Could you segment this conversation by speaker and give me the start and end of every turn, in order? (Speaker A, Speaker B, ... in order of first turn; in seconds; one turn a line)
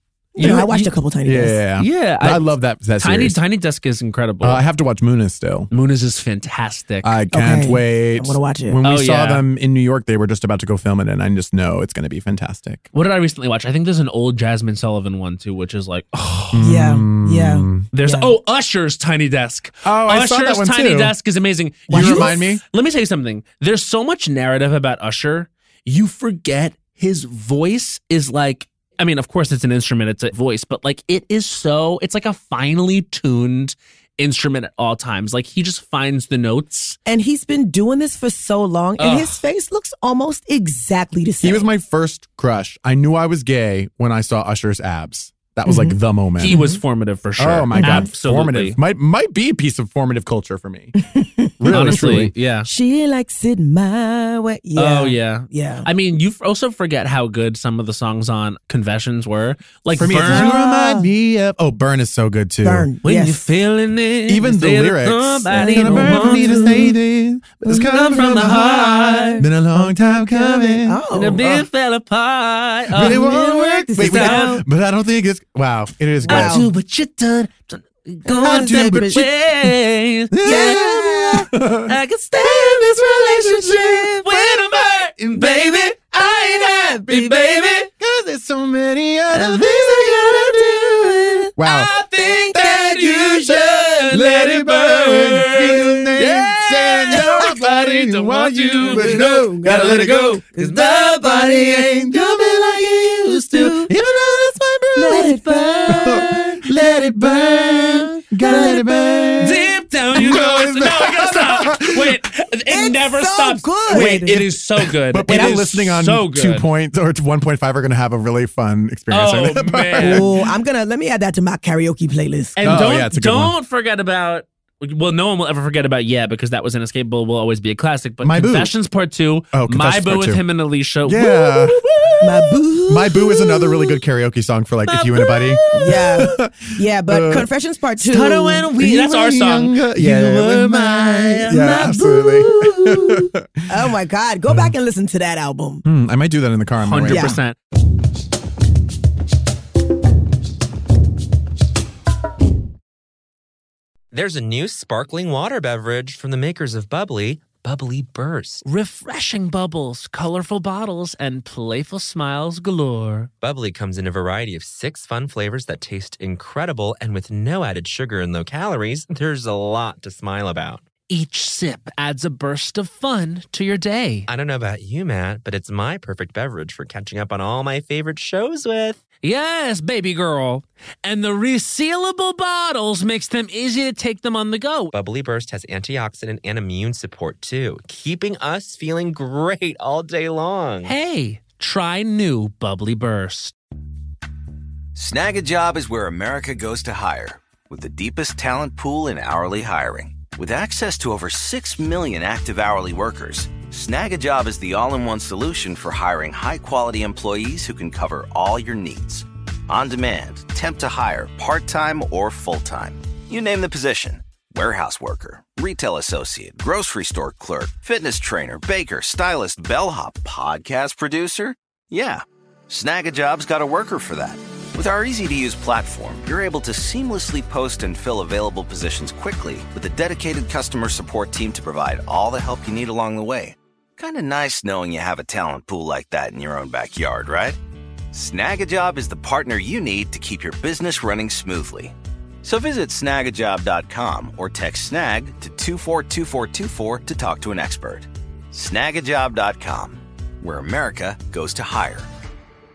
Speaker A: 0.3-0.9
Speaker B: 0.4-1.6
Speaker C: 0.4-0.7
Speaker C: 1.2-3.4
Speaker A: 1.8-2.5
Speaker A: 3.0-4.6
Speaker C: 4.4-5.7
Speaker A: 5.7-7.2
Speaker C: 7.0-12.8
Speaker B: 7.3-8.8
Speaker A: 8.8-9.4
Speaker A: 12.9-16.6
Speaker C: 16.5-17.9
Speaker B: 16.6-18.3
Speaker A: 17.9-37.0
Speaker C: 19.8-21.1
Speaker B: 21.9-22.4
Speaker C: 21.9-22.6
Speaker B: 37.0-41.6
Speaker A: 39.0-39.4
Speaker C: 41.4-46.6
Speaker B: 45.6-46.8
Speaker A: 46.4-48.8
Speaker C: 47.4-51.0
Speaker B: 47.7-48.1
Speaker B: 51.0-52.0
Speaker C: 51.6-52.3
Speaker A: 51.7-52.7
Speaker B: 52.6-55.9
Speaker A: 54.8-60.5
Speaker C: 60.0-62.9
Speaker B: 60.2-61.1
Speaker B: 62.6-63.5
Speaker A: 63.0-66.9
Speaker C: 64.3-71.7
Speaker B: 65.5-66.9
Speaker A: 67.7-69.5
Speaker B: 69.8-71.5
Speaker A: 71.1-73.3
Speaker C: 72.9-76.7
Speaker B: 72.9-74.6
Speaker A: 74.0-74.6
Speaker B: 76.2-76.7
Speaker A: 76.2-87.9
Speaker B: 78.2-79.2
Speaker C: 78.4-79.7
Speaker C: 80.3-90.8
Speaker B: 80.4-81.5
Speaker A: 89.3-103.9
Speaker C: 91.5-91.9
Speaker B: 92.2-92.5
Speaker C: 92.5-112.2
Speaker B: 98.8-100.7
Speaker B: 104.9-106.2
Speaker A: 105.0-108.7
Speaker B: 108.4-109.5
Speaker A: 109.4-116.7
Speaker B: 112.7-114.4
Speaker C: 113.9-120.5
Speaker B: 115.2-115.7
Speaker A: 119.1-120.3
Speaker B: 120.0-122.8
Speaker A: 122.5-132.5
Speaker C: 122.6-123.5
Speaker C: 128.2-128.7
Speaker C: 129.5-130.4
Speaker C: 131.0-131.8
Speaker B: 132.2-133.8
Speaker C: 132.9-137.5
Speaker A: 134.9-136.3
Speaker B: 135.7-138.7
Speaker A: 138.0-143.2
Speaker C: 138.8-143.9
Speaker B: 141.5-142.4
Speaker B: 143.7-145.8
Speaker C: 144.5-144.7
Speaker C: 145.8-147.4
Speaker A: 146.8-147.6
Speaker B: 147.1-147.4
Speaker D: 154.1-158.6
Speaker A: 158.6-163.3
Speaker D: 163.4-170.8
Speaker A: 171.1-174.3
Speaker D: 174.3-179.0
Speaker A: 179.2-184.9
Speaker D: 184.9-190.9
Speaker A: 190.8-193.5
Speaker E: 194.9-237.6
Speaker E: 238.1-252.1